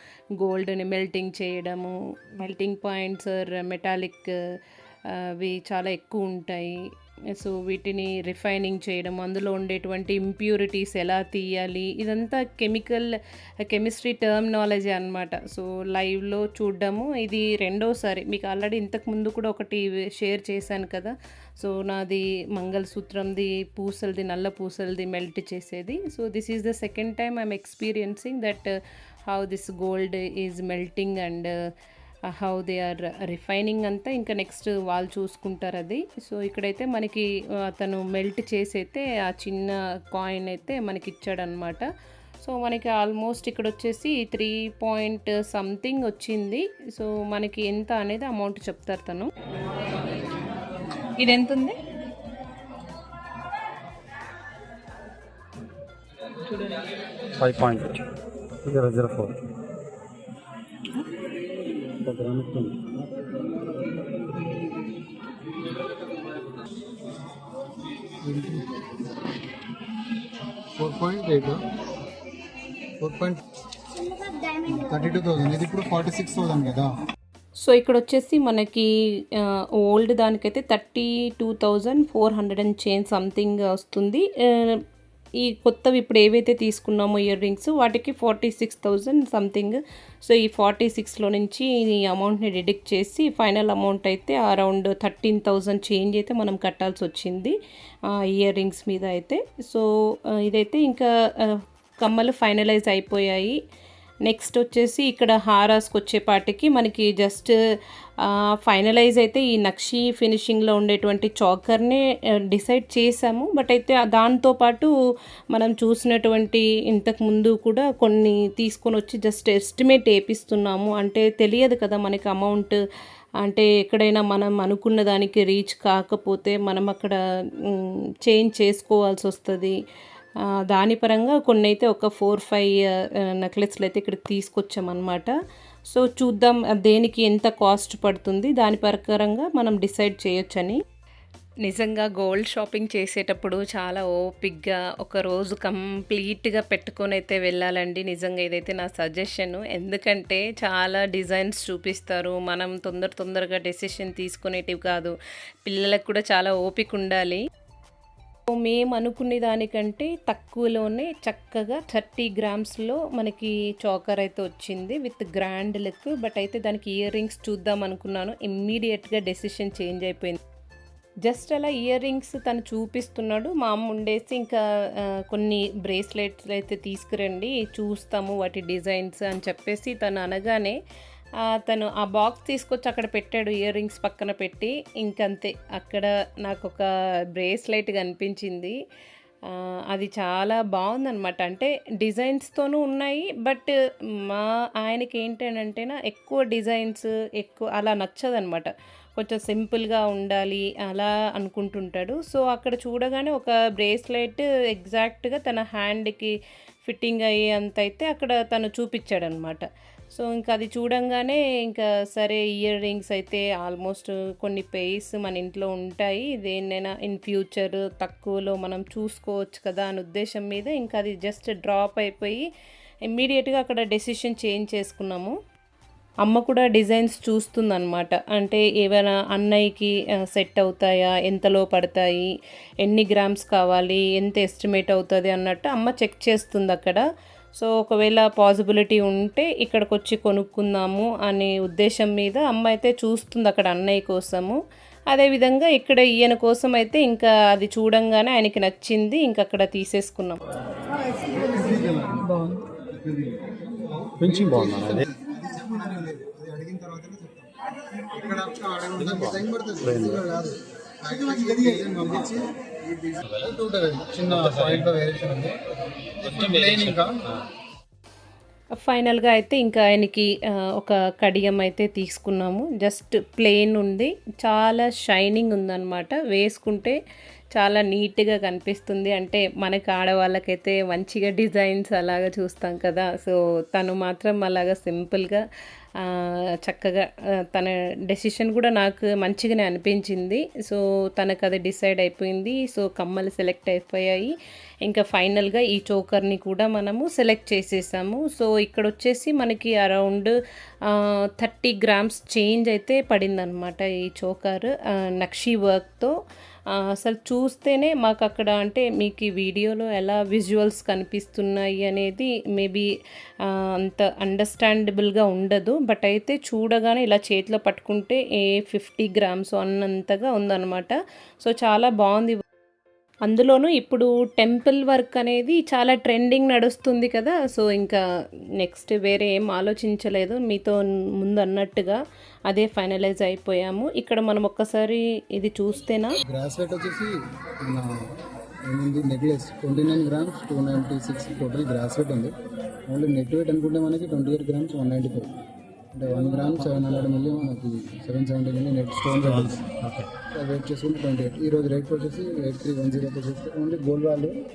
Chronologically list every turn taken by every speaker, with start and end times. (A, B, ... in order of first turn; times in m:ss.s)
0:00.4-0:04.3 A
0:05.1-0:28.7 A
0:29.3-0:31.5 A
0:32.3-0:49.3 A
0:51.2-0:51.8 A
0:57.4-0:58.0 B
0:58.6-0:59.4 B
1:02.0-1:02.7 B
1:08.2-1:08.8 C
1:10.7-1:11.6 C
1:13.0-1:13.4 C
1:14.6-1:16.9 C
1:17.6-1:24.8 A
1:25.4-1:37.5 A
1:38.1-1:43.6 A
1:44.2-1:47.6 A
1:48.2-1:54.9 A
1:55.5-2:02.8 A
2:03.4-2:09.8 A
2:10.4-2:15.3 A
2:15.9-2:20.8 A
2:21.6-2:37.4 A
2:38.5-2:50.4 A
2:51.2-3:00.8 A
3:01.4-3:08.8 A
3:09.5-3:13.7 A
3:14.2-3:42.4 A
3:43.1-3:45.4 A
3:46.2-3:57.0 A
3:57.6-4:10.4 A
4:11.2-4:17.5 C
4:12.1-4:12.6 A
4:14.2-4:15.0 B
4:18.0-4:25.6 C
4:19.0-4:20.2 B
4:23.2-4:23.5 B
4:24.3-4:24.9 B
4:26.2-4:27.2 C
4:26.2-4:27.4 B
4:28.7-4:37.0 A
4:37.5-4:45.4 A
4:46.0-4:54.3 A
4:54.8-5:00.3 A
5:00.9-5:06.1 A
5:06.7-5:12.9 A
5:13.4-5:22.4 A
5:23.2-5:28.0 A
5:28.6-5:36.2 A
5:36.2-5:42.3 C
5:42.9-5:45.4 C
5:45.9-5:49.6 C
5:49.2-5:50.1 B
5:50.3-5:54.4 C